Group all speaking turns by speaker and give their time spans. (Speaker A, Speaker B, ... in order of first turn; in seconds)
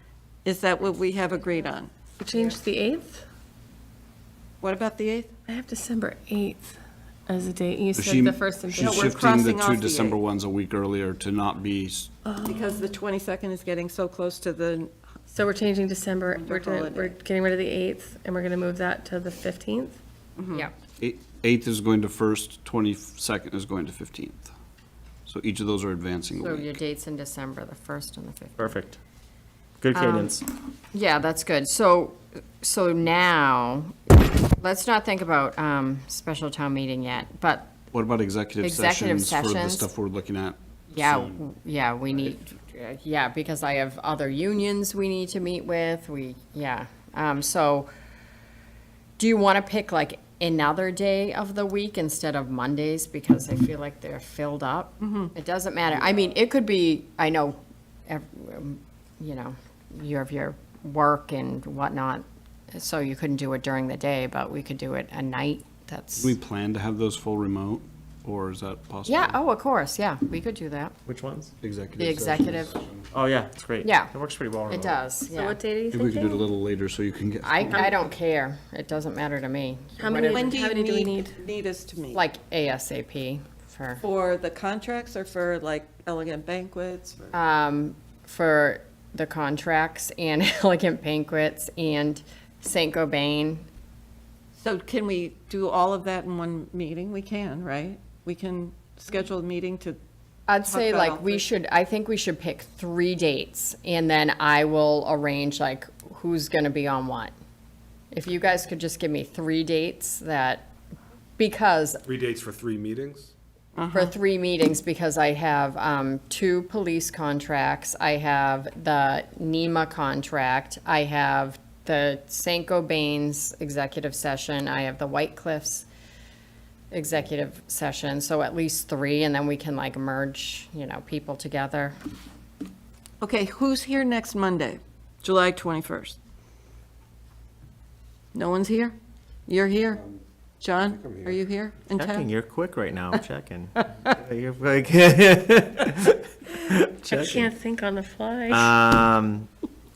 Speaker A: 0.4-2.6, 4.6-5.3, 8.7-10.2, 12.4-14.9, 16.3-17.1, 20.4-20.7, 55.0-55.3, 80.3-82.2, 84.0-87.3, 94.6-100.0, 100.6-101.5, 113.8-114.1, 133.2-136.2, 138.3-140.0, 140.6-142.3
Speaker B: 2.2-3.2, 5.5-6.7, 7.3-9.1, 12.2-12.8, 15.3-20.0, 75.3-76.5, 77.7-78.0, 80.0-81.4, 147.1-148.8
Speaker C: 7.9-12.1, 21.0-24.5, 25.2-26.8, 37.9-41.4, 66.2-69.4, 71.6-73.0, 75.9-77.9
Speaker D: 26.4-28.7, 29.9-30.4, 30.9-37.8, 38.6-39.9, 40.9-47.9, 49.2-66.3, 69.0-71.0, 72.0-72.7, 73.8-74.1, 74.7-75.6, 77.4-80.5, 82.1-84.0, 87.3-93.7, 100.5-107.3, 108.1-110.7, 111.4-112.0, 113.9-125.9, 126.9-131.9
Speaker E: 28.6-29.0, 29.8-30.5, 71.0-71.5, 73.1-75.0, 141.9-147.5, 148.5-149.5
Speaker F: 112.0-113.3, 139.9-140.2, 140.8-141.4